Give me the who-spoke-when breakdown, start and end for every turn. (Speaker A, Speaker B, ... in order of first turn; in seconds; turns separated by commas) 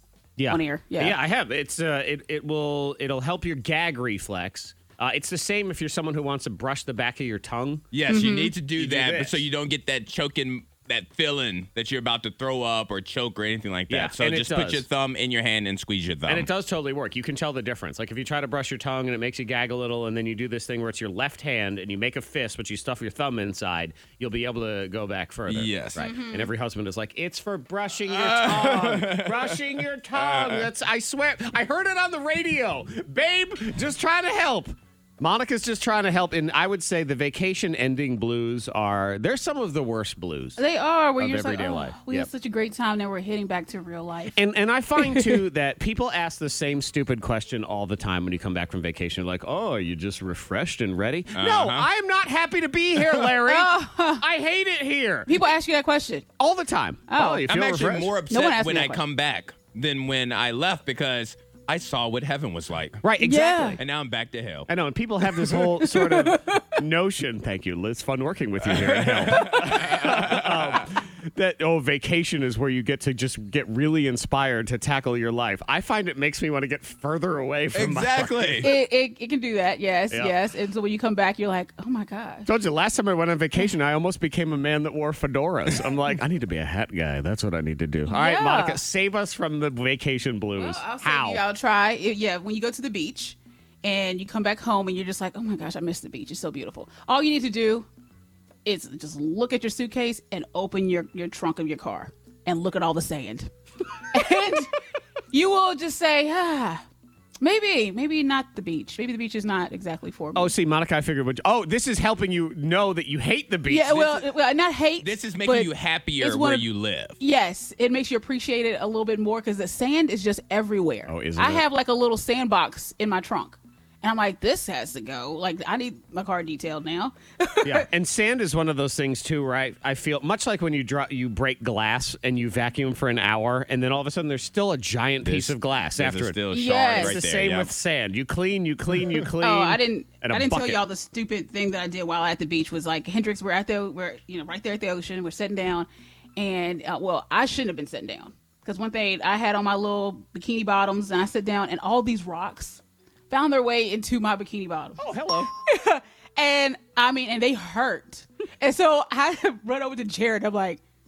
Speaker A: 0.4-7.9, Speaker B: 0.5-1.2, Speaker C: 7.9-16.5, Speaker B: 8.1-8.6, Speaker A: 8.8-9.5, Speaker A: 13.9-14.8, Speaker A: 16.3-40.6, Speaker C: 25.5-26.1, Speaker B: 26.0-26.5, Speaker C: 28.1-30.7, Speaker B: 40.6-44.4, Speaker A: 41.2-42.3, Speaker A: 44.4-55.3, Speaker B: 45.0-45.4, Speaker C: 51.3-51.9, Speaker C: 53.0-53.3, Speaker B: 53.5-54.2, Speaker B: 55.3-56.3, Speaker A: 56.4-58.1, Speaker B: 57.1-57.5, Speaker C: 57.5-63.0, Speaker B: 58.3-59.0, Speaker A: 63.0-63.8, Speaker B: 63.2-63.8, Speaker C: 63.8-64.7, Speaker A: 64.7-78.7, Speaker B: 65.4-66.6, Speaker C: 68.6-70.9, Speaker B: 69.4-69.6, Speaker C: 77.7-78.7, Speaker B: 78.6-82.5, Speaker A: 82.5-91.4, Speaker B: 88.1-88.8, Speaker B: 90.6-97.9, Speaker B: 98.7-104.8, Speaker B: 105.3-106.8, Speaker B: 107.4-110.5, Speaker A: 110.3-114.2, Speaker B: 113.7-116.7, Speaker C: 115.0-117.2, Speaker B: 117.2-127.9, Speaker A: 121.1-121.6, Speaker A: 127.6-136.4, Speaker C: 135.2-137.7, Speaker B: 136.5-137.2, Speaker A: 136.9-140.8, Speaker B: 139.4-155.0, Speaker A: 155.0-155.5, Speaker B: 155.6-160.8